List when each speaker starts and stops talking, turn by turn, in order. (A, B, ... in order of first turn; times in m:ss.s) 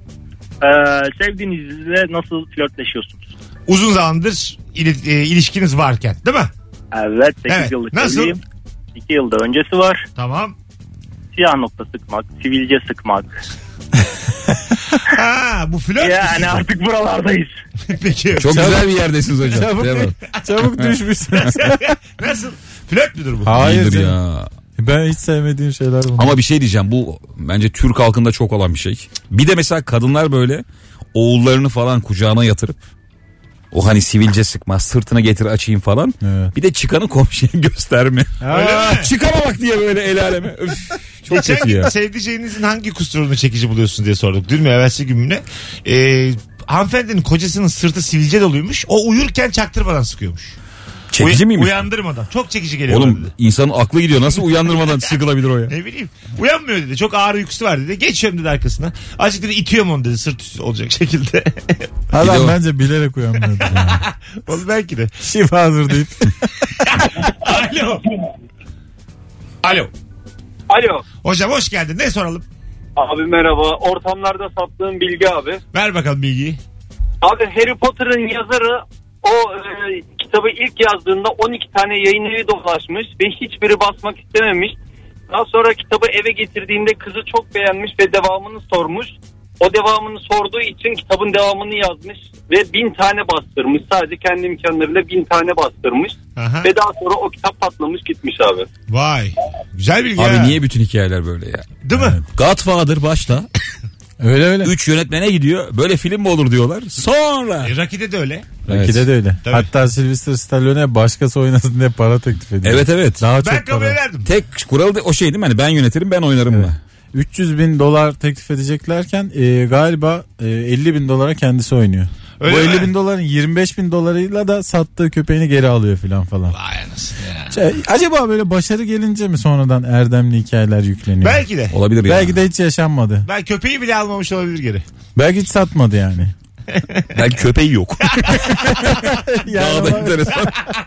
0:00.6-0:03.3 A
0:03.7-0:06.5 B
0:06.9-0:08.4 A
0:07.5-0:08.4 B
0:09.0-0:10.0 A
0:10.2-0:10.6 B
0:11.3-0:13.4 A
0:15.0-0:16.6 B
0:16.0-0:17.5 A
0:17.9-0:18.8 B
0:18.4-0:20.9 C
0:18.5-0:22.0 D
0:21.9-0:23.6 B
0:23.4-0:24.2 D
0:23.5-0:24.5 C
0:24.8-0:26.4 D
0:26.2-0:32.8 C
0:33.7-0:41.9 C
0:36.2-0:36.5 D
0:38.4-0:39.0 D
0:38.5-0:39.1 B
0:41.3-0:50.6 B
0:51.1-0:51.8 C
0:51.2-0:53.3 B
0:52.9-0:55.7 C
0:54.7-0:55.1 B
0:55.7-1:01.9 B
1:02.1-1:04.0 D
1:02.2-1:02.6 C
1:03.8-1:05.1 B
1:05.2-1:06.7 D
1:06.9-1:08.1 B
1:09.6-1:09.9 B
1:10.7-1:11.0 E
1:11.2-1:12.5 B
1:13.0-1:15.6 E
1:15.7-1:16.6 B
1:17.2-1:24.8 E
1:25.3-1:38.7 E
1:36.4-1:36.7 B
1:38.9-1:40.6 B
1:40.2-1:41.7 C
1:41.8-1:42.2 B
1:41.9-1:42.2 D
1:42.3-1:43.5 C
1:44.2-1:44.7 D
1:44.6-1:47.7 C
1:47.6-1:48.6 B
1:48.7-1:49.0 C
1:48.7-1:54.0 D
1:49.4-1:49.7 B
1:52.6-1:53.2 C
1:53.4-1:54.3 B
1:54.2-1:56.8 C
1:56.5-2:06.6 D
2:02.4-2:02.9 B
2:06.5-2:07.6 B
2:07.5-2:11.4 D
2:11.2-2:11.8 B
2:11.7-2:12.4 C
2:12.0-2:13.3 D
2:13.3-2:14.8 B
2:15.2-2:16.3 D
2:17.1-2:20.6 C
2:19.0-2:20.7 D